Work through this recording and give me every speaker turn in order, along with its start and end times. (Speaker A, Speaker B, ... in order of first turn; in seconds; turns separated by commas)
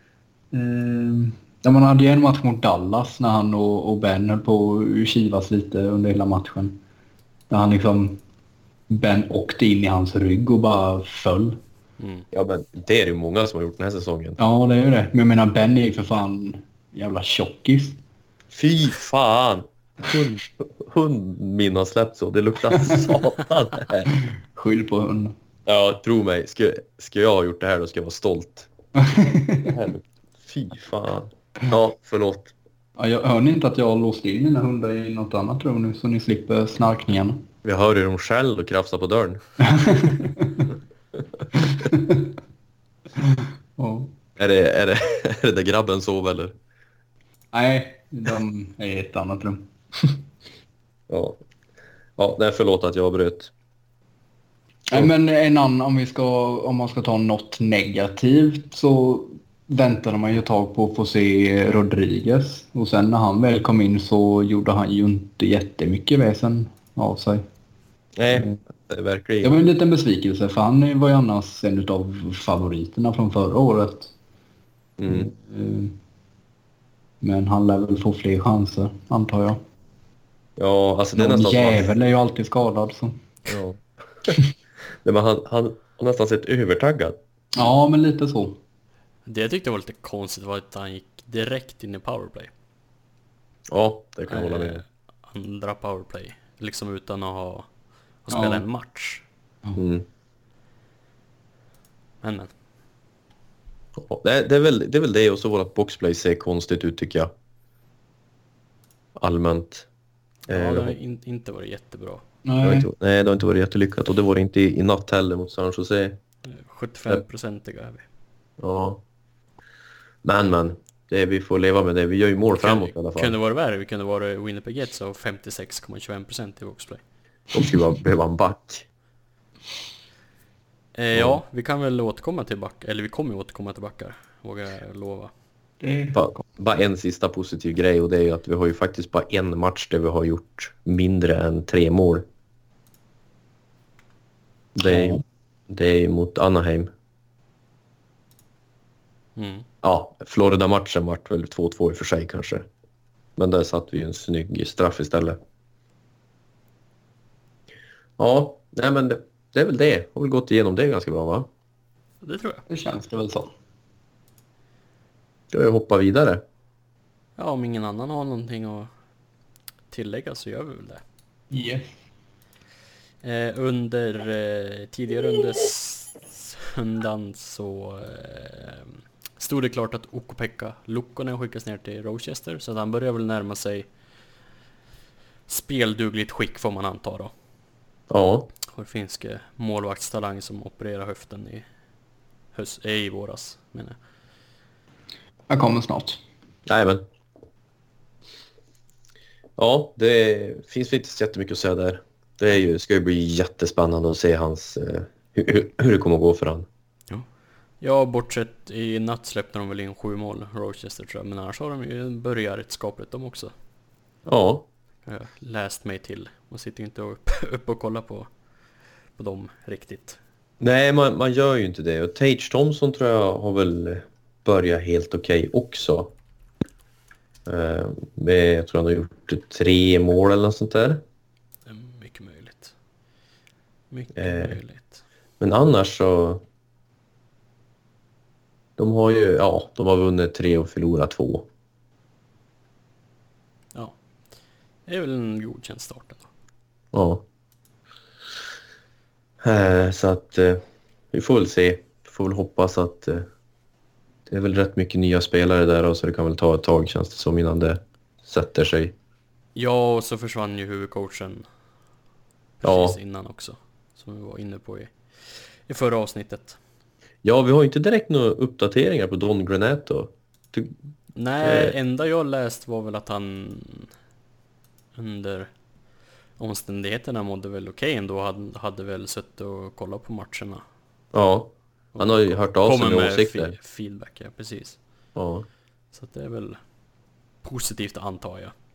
Speaker A: 0.5-6.8, Speaker A: 7.5-8.2, Speaker A: 8.9-11.6, Speaker B: 12.0-12.2, Speaker C: 12.3-14.4, Speaker A: 14.4-18.0, Speaker C: 18.5-24.1, Speaker A: 22.7-23.0, Speaker A: 24.4-25.4, Speaker C: 25.7-28.7, Speaker A: 29.0-29.7, Speaker C: 29.6-32.5, Speaker A: 33.0-37.5, Speaker C: 37.6-39.4, Speaker A: 39.6-40.7, Speaker A: 41.5-42.3, Speaker A: 43.2-44.1, Speaker C: 44.4-46.6, Speaker A: 47.5-50.2, Speaker C: 51.1-51.4, Speaker C: 52.2-53.5, Speaker A: 54.9-67.5, Speaker C: 68.2-69.6, Speaker A: 68.3-68.6, Speaker A: 69.4-74.1, Speaker C: 75.0-75.3, Speaker A: 75.1-76.0, Speaker A: 77.2-79.6, Speaker C: 80.6-81.9, Speaker A: 81.2-83.2, Speaker C: 83.5-84.4, Speaker C: 85.0-87.2, Speaker A: 87.5-88.6, Speaker B: 89.3-92.5, Speaker C: 93.7-94.8, Speaker B: 94.3-97.7, Speaker B: 98.2-99.2, Speaker A: 98.3-98.6, Speaker C: 99.8-100.1, Speaker B: 102.2-102.5, Speaker C: 104.0-107.3, Speaker C: 109.2-109.9, Speaker B: 110.5-112.2, Speaker C: 110.5-111.0, Speaker A: 112.5-112.9, Speaker C: 112.6-116.2, Speaker B: 116.5-118.1, Speaker C: 118.6-119.0, Speaker C: 120.2-123.4, Speaker B: 122.5-127.0, Speaker C: 127.5-128.9, Speaker B: 131.0-135.3, Speaker C: 131.1-131.4, Speaker A: 135.8-136.2, Speaker C: 136.1-142.3, Speaker C: 144.8-146.9, Speaker A: 144.8-145.2, Speaker B: 149.4-149.7, Speaker C: 149.8-152.7, Speaker C: 153.4-155.4, Speaker C: 158.2-161.5, Speaker B: 162.2-162.7, Speaker A: 162.7-163.5, Speaker C: 165.5-166.4, Speaker B: 167.4-168.9, Speaker B: 169.9-171.0, Speaker A: 171.5-171.9, Speaker B: 173.2-183.9, Speaker B: 185.5-187.3, Speaker C: 188.1-188.5, Speaker B: 188.7-191.7, Speaker B: 192.5-194.0, Speaker A: 195.5-196.2, Speaker C: 196.7-197.1, Speaker C: 199.6-206.7, Speaker B: 207.8-213.5, Speaker C: 214.3-214.7, Speaker B: 215.1-218.3, Speaker B: 219.2-220.2, Speaker C: 220.6-226.1, Speaker C: 227.5-231.0, Speaker B: 231.7-232.7, Speaker B: 233.9-235.0, Speaker C: 234.2-234.6, Speaker C: 235.4-236.4, Speaker C: 238.8-241.5, Speaker B: 244.9-246.3, Speaker C: 246.9-247.2, Speaker C: 249.4-253.3, Speaker C: 254.3-258.9, Speaker B: 259.6-261.4, Speaker B: 262.6-266.6, Speaker C: 262.6-263.0, Speaker C: 267.2-270.7, Speaker B: 271.2-273.9, Speaker C: 271.4-271.7, Speaker B: 274.9-275.5, Speaker B: 276.4-280.6, Speaker C: 281.1-283.6, Speaker B: 281.9-284.8, Speaker C: 285.1-285.5, Speaker B: 285.9-286.6, Speaker B: 287.4-288.5